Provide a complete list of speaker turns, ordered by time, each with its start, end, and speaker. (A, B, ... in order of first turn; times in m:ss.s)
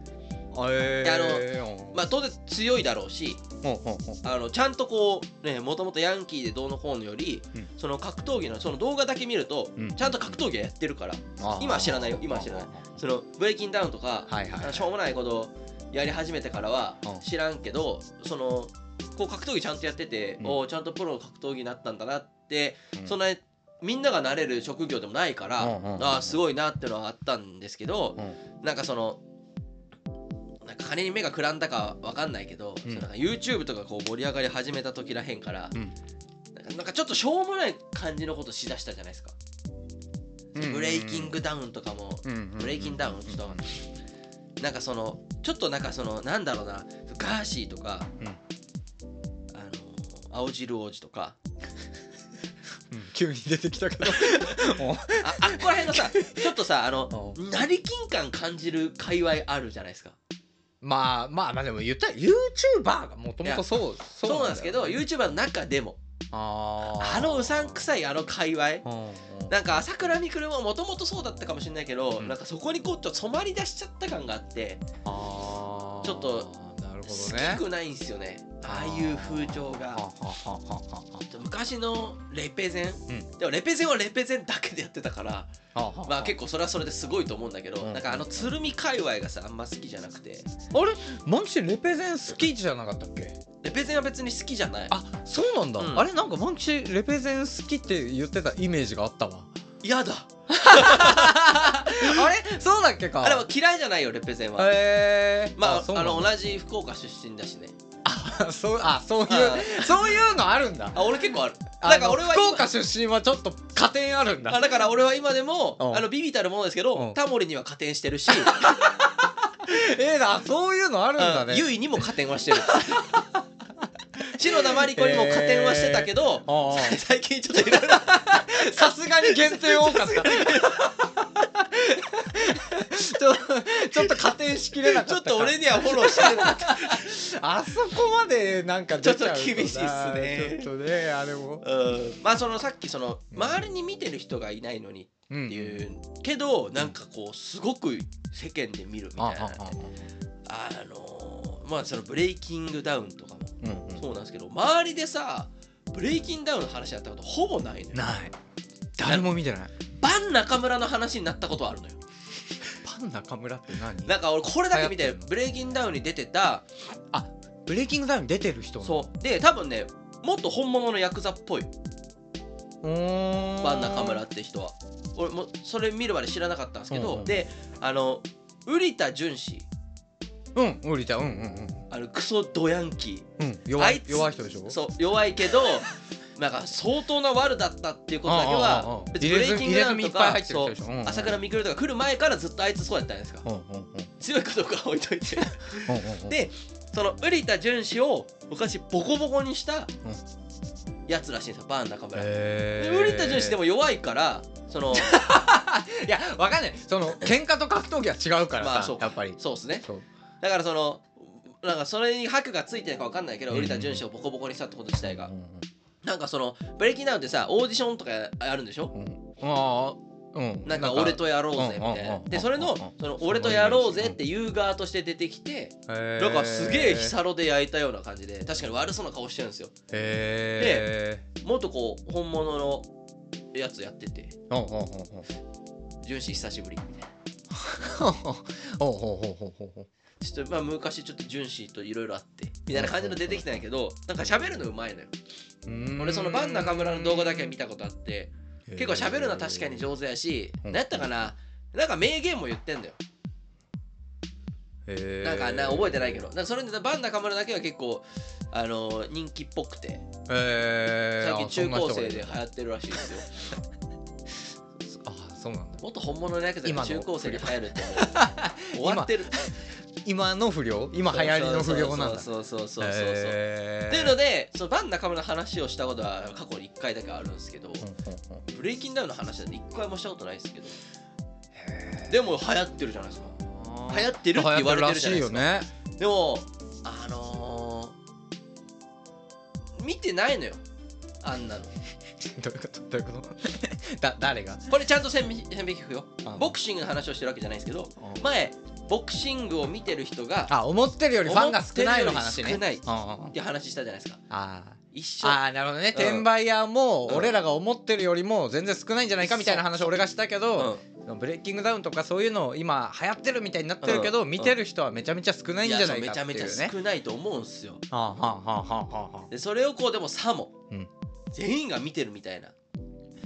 0:00.5-0:02.0 A
0:01.0-0:03.4 B
0:03.6-0:04.2 A
0:04.2-0:29.2 B
0:09.8-0:10.4 A
0:11.4-0:12.8 A
0:14.3-0:14.9 A
0:25.6-0:26.2 A
0:30.6-0:35.8 B
0:36.6-0:39.4 B
0:40.5-0:43.6 B
0:40.6-0:41.4 A
0:42.2-0:43.7 A
0:44.6-0:48.1 B
0:49.5-0:51.4 B
0:52.9-0:56.5 A
0:54.2-0:54.5 B
0:55.2-1:00.2 B
0:57.1-0:57.4 A
1:00.8-1:05.0 A
1:04.2-1:06.0 B
1:06.3-1:07.8 A
1:06.8-1:08.8 B
1:08.8-1:09.5 A
1:09.5-1:14.8 B
1:15.0-1:17.6 A
1:16.0-1:16.5 B
1:17.1-1:20.0 B
1:18.6-1:21.3 A
1:21.3-1:25.5 B
1:25.7-1:26.3 A
1:26.0-1:30.6 B
1:27.8-1:28.5 A
1:30.7-1:33.4 A
1:33.6-1:34.9 B
1:34.9-1:39.5 A
1:35.8-1:36.1 B
1:39.8-1:42.2 B
1:40.5-1:43.4 A
1:43.2-1:44.7 B
1:44.6-1:46.3 A
1:45.6-1:47.7 B
1:48.0-1:51.2 A
1:49.3-1:50.2 B
1:50.9-1:52.7 B
1:51.8-1:54.8 A
1:54.5-1:58.6 B
1:55.8-1:56.1 A
1:58.5-2:01.7 A
2:01.2-2:03.1 B
2:02.7-2:03.0 A
2:04.3-2:11.1 B
2:04.6-2:07.0 A
2:07.7-2:21.6 A
2:14.8-2:17.0 B
2:19.0-2:20.7 B
2:21.6-2:29.6 B
2:23.3-2:23.6 A
2:25.3-2:25.8 A
2:29.2-2:30.0 A
2:30.5-2:38.0 B
2:33.6-2:34.0 A
2:37.9-2:38.4 A
2:39.0-2:39.7 A
2:39.0-2:39.3 B
2:40.0-2:42.0 B
2:42.7-2:45.3 A
2:44.0-2:46.6 B
2:47.1-2:49.1 A
2:48.8-2:51.7 B
2:52.8-2:54.2 A
2:53.6-2:59.6 B
2:56.9-2:57.4 A
3:00.6-3:01.9 A
3:01.9-3:13.4 B
3:03.4-3:04.8 A
3:08.2-3:11.4 A
3:13.4-3:14.1 A
3:14.2-3:19.9 B
3:15.8-3:16.4 A
3:21.1-3:25.1 B
3:22.1-3:23.6 A
3:24.9-3:30.1 A
3:28.6-3:29.9 B
3:30.4-3:35.3 B
3:33.5-3:34.0 A
3:35.0-3:35.7 A
3:36.0-3:38.9 B
3:38.9-3:44.2 A
3:40.6-3:49.7 B
3:45.9-3:47.2 A
3:49.9-3:51.2 A
3:50.6-3:50.9 B
3:51.4-3:52.9 B
3:53.5-3:54.3 B
3:54.5-3:55.3 A
3:56.0-3:57.1 B
3:57.5-3:59.9 A
4:00.2-4:05.1 B
4:02.7-4:03.5 A
4:05.6-4:07.6 A
4:06.0-4:13.0 B
4:08.7-4:09.9 A
4:10.6-4:11.3 A
4:14.9-4:16.2 A
4:15.2-4:20.0 B
4:20.3-4:22.4 A
4:21.2-4:23.3 B
4:24.8-4:25.8 A
4:25.8-4:29.4 B
4:26.6-4:32.3 A
4:31.1-4:37.9 B
4:32.8-4:34.2 A
4:37.8-4:38.4 A
4:38.5-4:40.8 B
4:41.5-4:42.2 A
4:42.1-4:43.4 B
4:43.3-4:45.7 A
4:43.9-4:47.9 B
4:49.8-4:50.6 B
4:51.2-4:51.7 B
4:52.2-4:54.6 A
4:54.7-5:00.6 B
4:56.2-4:56.6 A
4:58.0-4:58.2 A
5:00.5-5:03.3 A
5:01.3-5:04.2 B
5:04.3-5:16.7 A
5:04.9-5:05.4 B
5:05.9-5:06.3 B
5:07.1-5:07.4 B
5:09.2-5:09.9 B
5:10.6-5:10.8 B
5:13.8-5:14.6 B
5:15.6-5:17.8 B
5:17.9-5:19.3 A
5:19.3-5:20.6 B
5:21.3-5:22.5 B